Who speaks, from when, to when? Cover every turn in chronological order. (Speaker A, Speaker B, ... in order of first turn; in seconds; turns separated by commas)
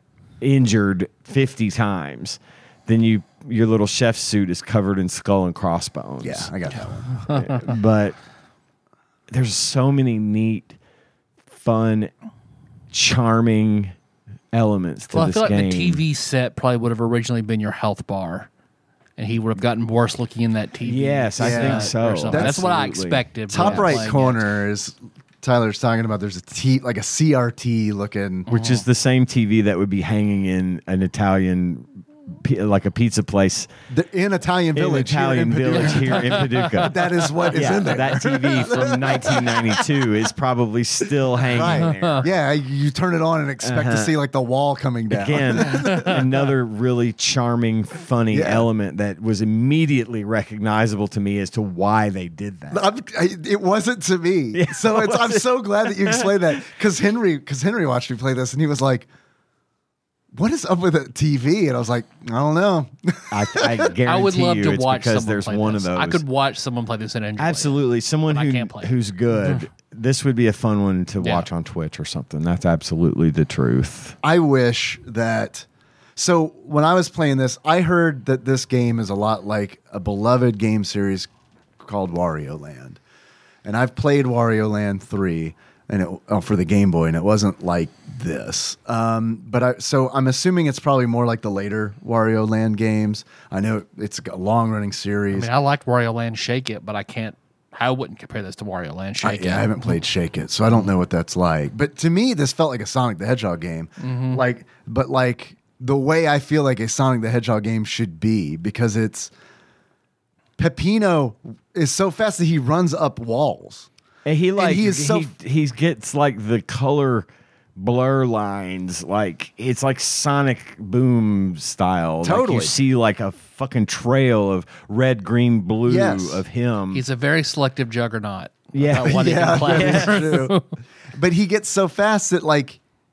Speaker A: 0.4-8.2, Speaker B: 6.2-7.2, Speaker A: 9.3-10.8, Speaker A: 11.5-12.1, Speaker A: 12.9-13.9, Speaker A: 14.5-16.0, Speaker C: 15.1-18.5, Speaker C: 19.2-24.4, Speaker A: 20.8-24.1, Speaker B: 21.4-22.8, Speaker B: 23.5-28.5, Speaker C: 28.5-28.8, Speaker A: 28.5-33.7, Speaker B: 33.9-40.0, Speaker A: 34.7-42.3, Speaker B: 41.4-46.2, Speaker C: 41.9-42.2, Speaker A: 43.6-44.1, Speaker A: 45.1-52.9, Speaker B: 48.3-48.7, Speaker B: 52.7-59.1, Speaker A: 54.5-56.6, Speaker B: 60.3-63.9, Speaker A: 63.3-66.2, Speaker C: 64.0-69.6, Speaker A: 67.4-74.2, Speaker C: 71.2-71.5, Speaker B: 74.2-81.3, Speaker B: 81.8-83.0, Speaker B: 83.6-95.5, Speaker C: 95.3-100.0, Speaker B: 99.2-109.3, Speaker C: 104.0-104.4, Speaker B: 110.6-113.9, Speaker A: 114.2-127.0, Speaker B: 114.6-115.3, Speaker B: 122.2-122.7, Speaker B: 125.9-126.4, Speaker C: 126.9-130.6, Speaker A: 128.7-130.3, Speaker B: 129.0-130.6, Speaker B: 131.1-132.8